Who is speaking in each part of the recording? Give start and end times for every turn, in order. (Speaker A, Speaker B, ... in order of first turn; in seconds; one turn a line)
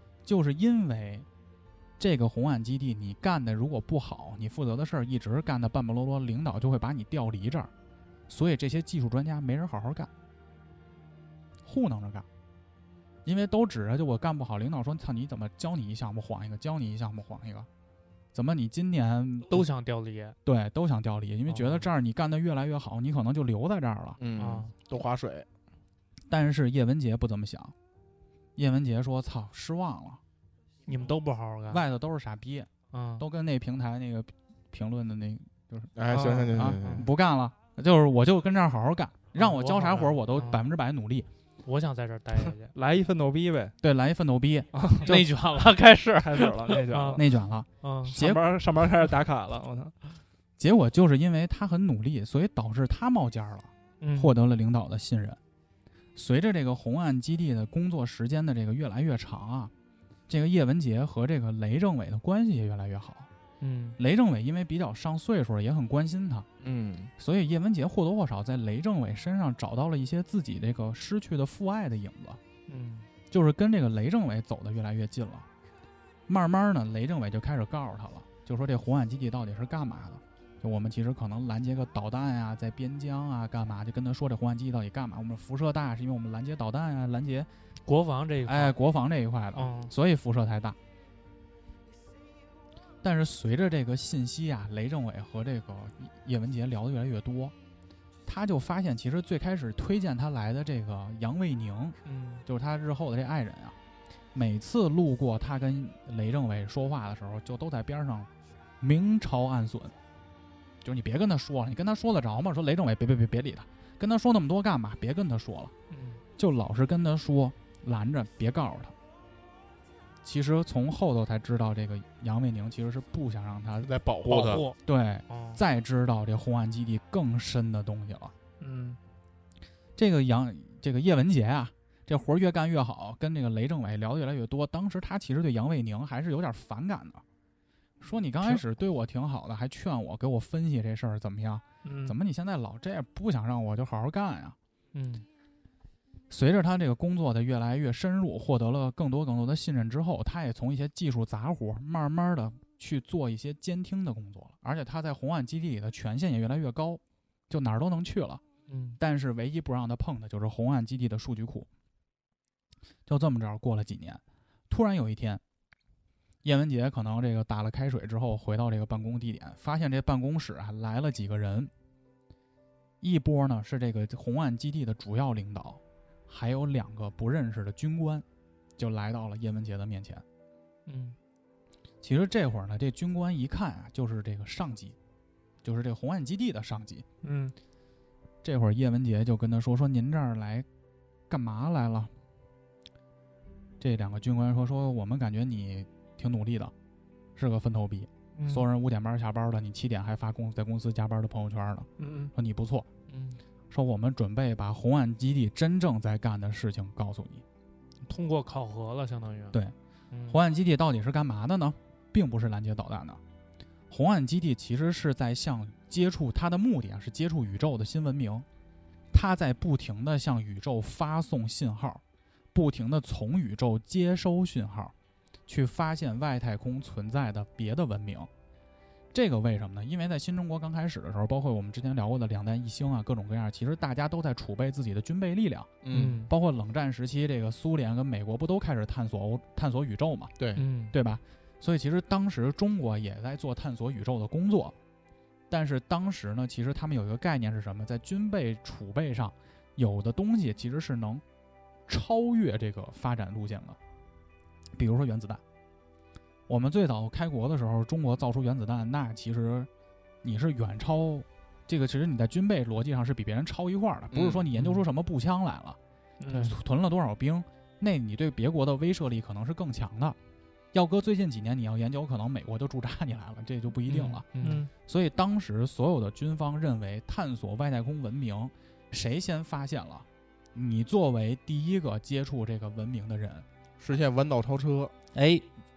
Speaker A: 0.2-1.2
Speaker A: 2.0-7.7
Speaker A: 8.3-10.1
Speaker A: 11.6-12.2
Speaker A: 13.2-17.7
Speaker A: 18.3-19.7
Speaker B: 19.5-20.4
Speaker A: 20.4-24.2
Speaker C: 21.5-21.9
Speaker D: 24.2-25.5
Speaker B: 24.4-24.7
Speaker A: 26.3-27.7
Speaker A: 28.6-30.2
Speaker B: 30.9-31.9
Speaker A: 31.7-35.9
Speaker B: 32.9-33.2
Speaker D: 36.0-37.1
Speaker C: 36.1-36.9
Speaker A: 36.5-41.3
Speaker B: 39.3-40.7
Speaker B: 41.6-42.7
Speaker C: 42.3-43.7
Speaker A: 43.8-45.2
Speaker C: 44.7-45.3
Speaker B: 45.0-47.3
Speaker C: 46.1-47.2
Speaker A: 47.1-48.4
Speaker B: 47.8-48.2
Speaker C: 48.0-50.0
Speaker A: 50.6-55.4
Speaker B: 54.0-54.4
Speaker A: 56.1-59.7
Speaker A: 60.3-63.3
Speaker B: 63.6-64.0
Speaker A: 64.0-66.5
Speaker C: 66.6-66.9
Speaker D: 66.7-67.1
Speaker A: 67.2-72.4
Speaker B: 72.7-73.1
Speaker A: 73.3-75.5
Speaker A: 76.3-87.5
Speaker B: 87.8-88.8
Speaker A: 88.4-90.8
Speaker B: 89.5-89.9
Speaker A: 93.0-97.5
Speaker A: 98.2-103.8
Speaker B: 102.0-102.5
Speaker A: 104.3-108.3
Speaker A: 108.8-109.9
Speaker A: 110.8-115.7
Speaker B: 115.9-116.2
Speaker A: 116.4-118.9
Speaker A: 120.2-123.9
Speaker D: 123.8-124.7
Speaker B: 124.3-125.6
Speaker A: 124.8-128.3
Speaker C: 128.6-129.0
Speaker A: 130.0-137.2
Speaker A: 138.0-144.6
Speaker C: 141.8-142.2
Speaker B: 144.9-145.3
Speaker A: 146.3-158.4
Speaker B: 158.7-159.0
Speaker A: 159.0-161.7
Speaker A: 163.1-165.4
Speaker A: 166.4-171.7
Speaker A: 173.0-178.2
Speaker A: 178.8-180.2
Speaker B: 180.9-181.2
Speaker A: 182.0-184.9
Speaker A: 185.6-187.0
Speaker C: 187.2-187.5
Speaker A: 188.4-190.7
Speaker A: 191.3-192.1
Speaker A: 193.8-196.7
Speaker A: 197.3-202.9
Speaker B: 198.4-198.7
Speaker C: 202.0-202.3
Speaker B: 203.1-203.4
Speaker A: 203.7-207.4
Speaker B: 208.0-209.6
Speaker B: 210.1-210.4
Speaker A: 210.3-213.2
Speaker A: 213.9-218.4
Speaker A: 219.1-222.0
Speaker A: 222.5-224.9
Speaker A: 225.5-228.3
Speaker A: 229.1-240.3
Speaker D: 235.8-236.2
Speaker B: 235.9-236.3
Speaker D: 240.4-240.6
Speaker B: 240.5-240.9
Speaker A: 240.9-244.8
Speaker A: 245.5-251.2
Speaker A: 251.9-253.8
Speaker A: 254.7-255.4
Speaker A: 256.5-259.7
Speaker A: 260.2-265.8
Speaker D: 264.1-264.4
Speaker C: 264.6-264.8
Speaker C: 266.2-266.6
Speaker A: 266.4-270.2
Speaker A: 270.7-274.2
Speaker C: 273.9-274.7
Speaker B: 274.3-274.7
Speaker A: 274.8-283.4
Speaker D: 283.8-284.9
Speaker A: 285.1-285.4